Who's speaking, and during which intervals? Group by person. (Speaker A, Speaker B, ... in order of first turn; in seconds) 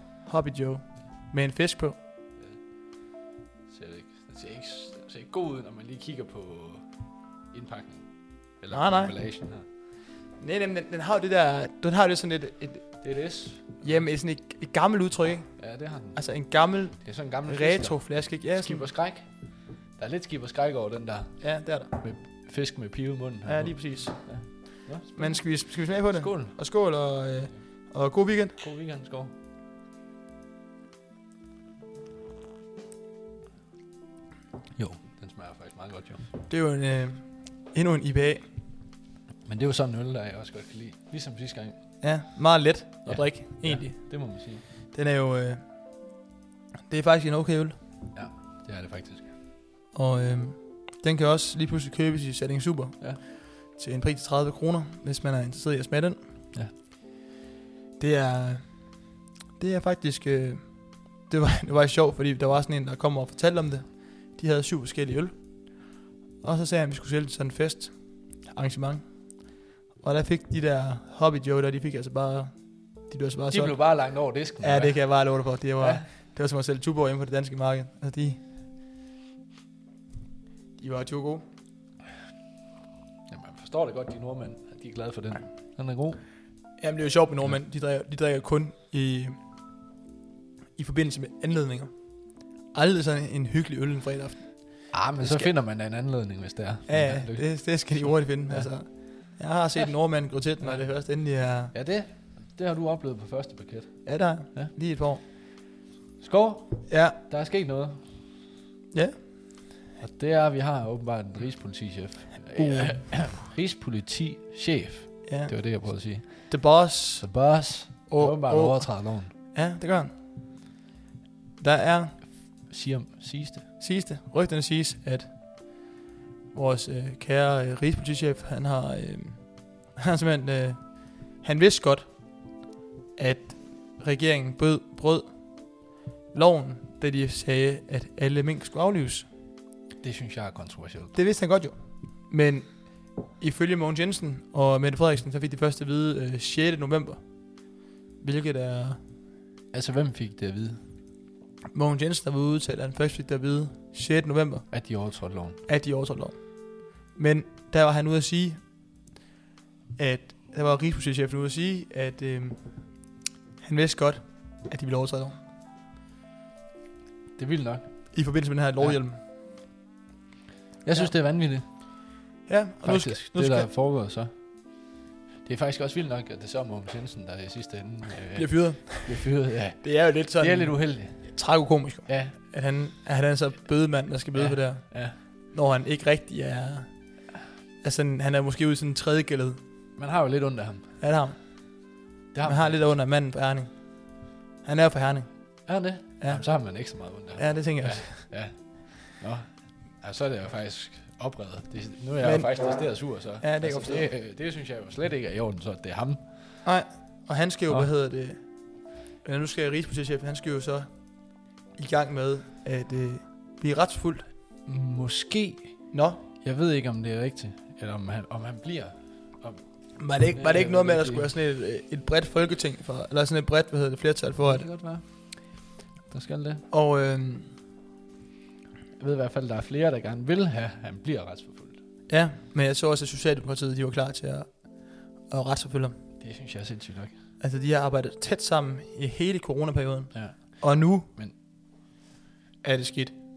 Speaker A: 0.2-2.0, 8.7-9.2, 10.4-18.9, 21.4-21.9, 23.4-28.6, 36.5-38.5, 42.0-46.1, 46.9-47.8, 49.9-56.2, 58.0-78.4, 80.8-81.4, 86.8-89.4, 90.8-95.5, 96.9-101.7, 104.0-105.2, 106.9-107.2, 108.9-109.5, 112.5-113.2, 115.2-120.2, 121.6-122.2, 123.8-125.9, 126.5-132.6, 133.2-139.3, 141.1-149.1, 151.7-158.8, 160.0-165.4, 168.1-169.2, 172.5-173.7, 178.3-189.6, 191.0-198.3, 202.2-204.1, 206.6-214.3, 215.9-216.2, 220.0-224.7, 226.7-227.5, 232.1-236.0, 237.4-241.1, 242.6-243.1
Speaker B: 3.7-9.7, 13.0-14.1, 15.6-16.4, 17.0-26.6, 28.6-29.3, 34.8-36.3, 39.4-41.8, 43.0-44.6, 48.1-49.3, 73.5-76.1, 83.3-86.2, 94.9-99.9, 100.6-101.0, 101.7-104.7, 106.2-108.2, 110.0-119.3, 122.6-123.7, 140.0-141.2, 149.7-150.8, 154.7-155.6, 167.4-169.0, 170.8-171.6, 172.8-181.5, 182.1-182.4, 184.3-185.2, 190.0-190.9, 192.3-192.9, 195.7-206.6, 214.7-221.3, 224.4-226.6, 229.0-231.8, 236.2-237.2, 240.1-241.3